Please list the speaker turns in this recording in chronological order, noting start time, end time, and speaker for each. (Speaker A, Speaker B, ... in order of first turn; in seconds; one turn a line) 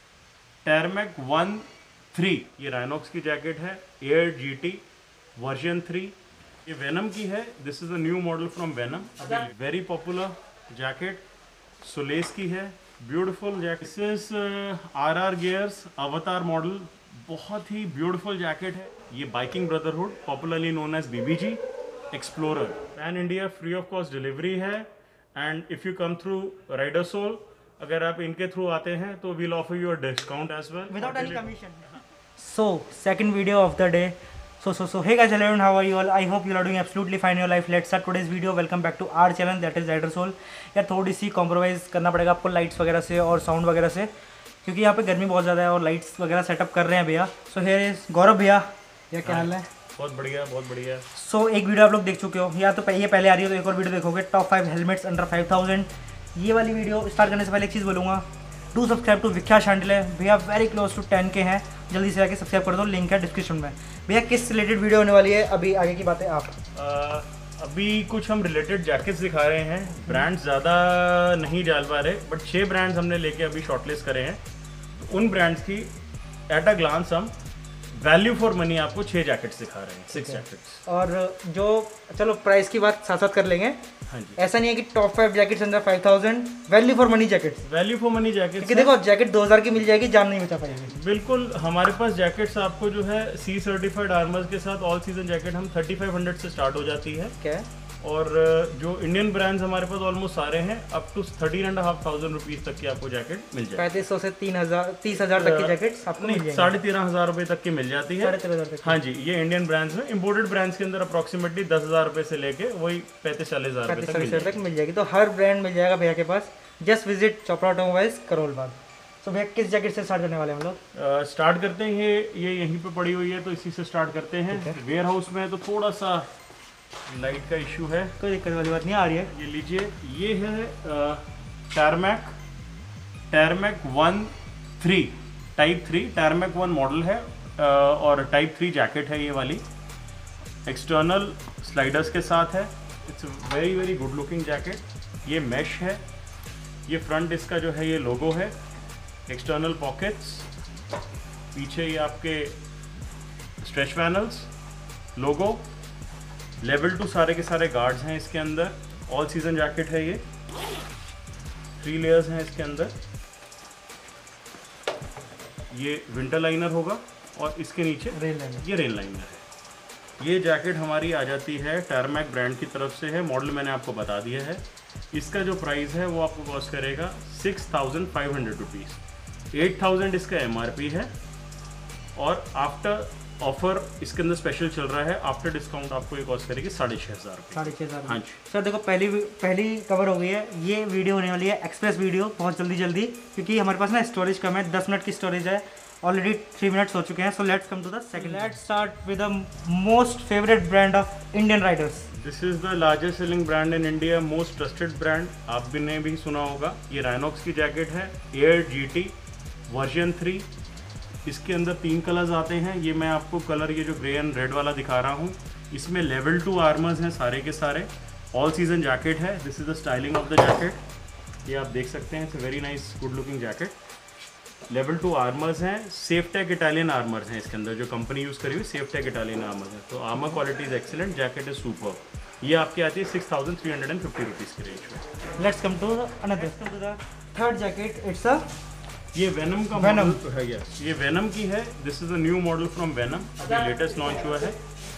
Speaker A: 0.7-4.8
Speaker A: 5.4-11.2
Speaker A: 11.8-21.6
Speaker A: 22.1-31.6
Speaker B: 30.9-44.1
Speaker B: 44.6-49.7
Speaker A: 49.2-51.1
Speaker B: 51.1-66.5
Speaker A: 66.8-74.4
Speaker A: 74.9-75.9
Speaker A: 76.5-77.3
Speaker A: 77.9-80.8
Speaker B: 80.1-83.8
Speaker A: 84.1-84.4
Speaker B: 84.4-87.6
Speaker A: 87.6-88.9
Speaker B: 88.6-90.9
Speaker A: 90.9-97.4
Speaker B: 97.4-97.7
Speaker A: 98.0-104.0
Speaker B: 103.8-106.7
Speaker A: 105.1-114.6
Speaker B: 108.2-109.0
Speaker B: 113.9-120.8
Speaker A: 120.9-126.3
Speaker B: 124.5-124.8
Speaker A: 127.1-128.2
Speaker B: 128.2-129.3
Speaker A: 129.3-132.4
Speaker A: 133.3-139.7
Speaker A: 140.7-146.0
Speaker A: 146.9-148.6
Speaker A: 149.3-150.5
Speaker A: 151.5-152.6
Speaker A: 153.6-154.5
Speaker A: 155.2-155.7
Speaker A: 156.6-160.2
Speaker A: 161.8-162.9
Speaker A: 165.7-169.5
Speaker B: 168.1-168.6
Speaker A: 170.2-179.0
Speaker A: 179.5-181.1
Speaker A: 182.2-188.4
Speaker B: 187.5-202.1
Speaker A: 198.2-198.5
Speaker A: 202.1-209.2
Speaker A: 209.7-210.5
Speaker A: 211.2-220.8
Speaker A: 221.4-223.8
Speaker A: 224.7-235.0
Speaker B: 235.4-238.5
Speaker A: 239.1-244.6
Speaker B: 239.7-240.2